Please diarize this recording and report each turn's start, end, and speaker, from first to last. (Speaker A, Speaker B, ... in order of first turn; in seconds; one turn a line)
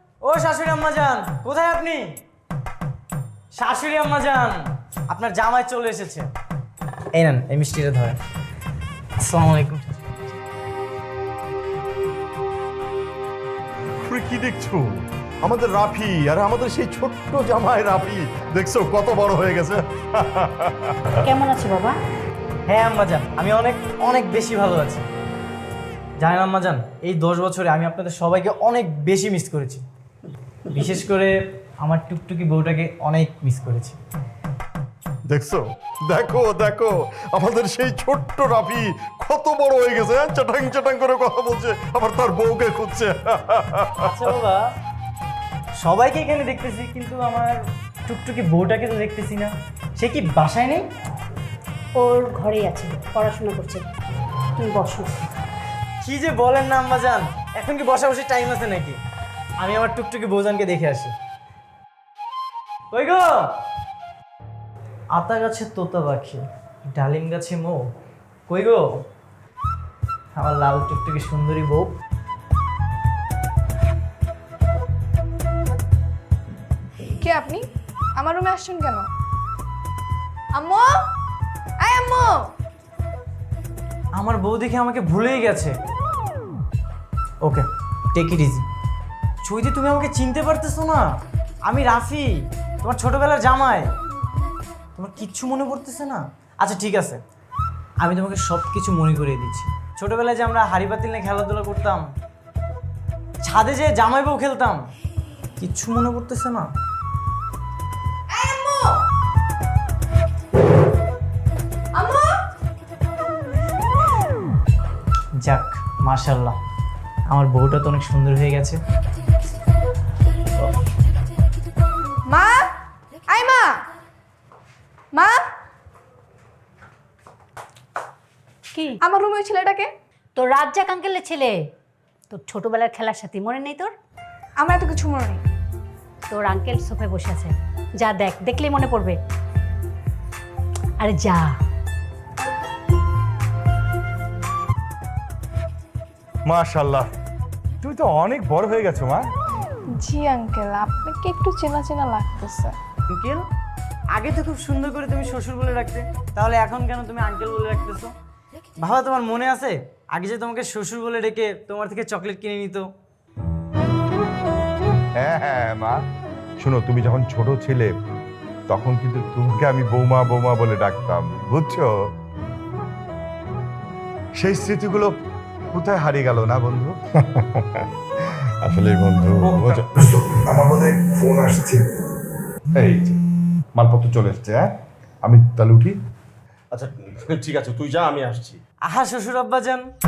Speaker A: 0.2-2.2
Speaker A: 3.5-6.3
Speaker A: 7.2-8.2
Speaker A: 9.2-10.1
Speaker B: 14.0-21.1
Speaker C: 21.2-22.0
Speaker A: 22.7-25.1
Speaker A: 26.2-29.8
Speaker A: 30.7-34.0
Speaker B: 35.3-44.1
Speaker A: 44.0-44.6
Speaker A: 45.8-50.9
Speaker C: 52.0-53.8
Speaker C: 54.5-55.1
Speaker A: 56.0-59.0
Speaker A: 59.6-61.1
Speaker A: 62.9-63.5
Speaker A: 65.1-66.4
Speaker A: 67.0-67.8
Speaker A: 68.5-68.9
Speaker A: 70.4-71.9
Speaker D: 77.2-77.6
Speaker D: 78.2-79.0
Speaker D: 80.5-81.1
Speaker D: 81.8-82.5
Speaker A: 84.2-85.8
Speaker A: 87.4-88.7
Speaker A: 89.4-91.1
Speaker A: 91.7-93.9
Speaker A: 95.0-97.2
Speaker A: 98.0-102.1
Speaker A: 103.4-104.9
Speaker A: 105.6-106.7
Speaker D: 108.3-109.0
Speaker D: 111.9-112.4
Speaker A: 115.4-116.6
Speaker A: 117.3-118.8
Speaker D: 122.3-122.7
Speaker D: 123.3-123.8
Speaker D: 125.1-125.5
Speaker D: 129.0-129.9
Speaker C: 130.4-131.6
Speaker C: 132.3-133.9
Speaker D: 134.6-135.4
Speaker C: 136.3-139.2
Speaker C: 141.0-141.5
Speaker E: 146.5-147.1
Speaker E: 147.8-149.2
Speaker D: 150.0-152.8
Speaker A: 153.1-153.4
Speaker A: 154.1-158.1
Speaker A: 158.8-162.9
Speaker E: 165.2-166.0
Speaker E: 166.6-167.9
Speaker E: 168.7-171.9
Speaker E: 174.4-175.1
Speaker E: 175.7-176.9
Speaker B: 178.6-179.9
Speaker E: 179.4-181.8
Speaker E: 182.8-183.2
Speaker E: 183.8-184.7
Speaker E: 185.2-186.0
Speaker B: 186.7-188.6
Speaker A: 188.9-189.8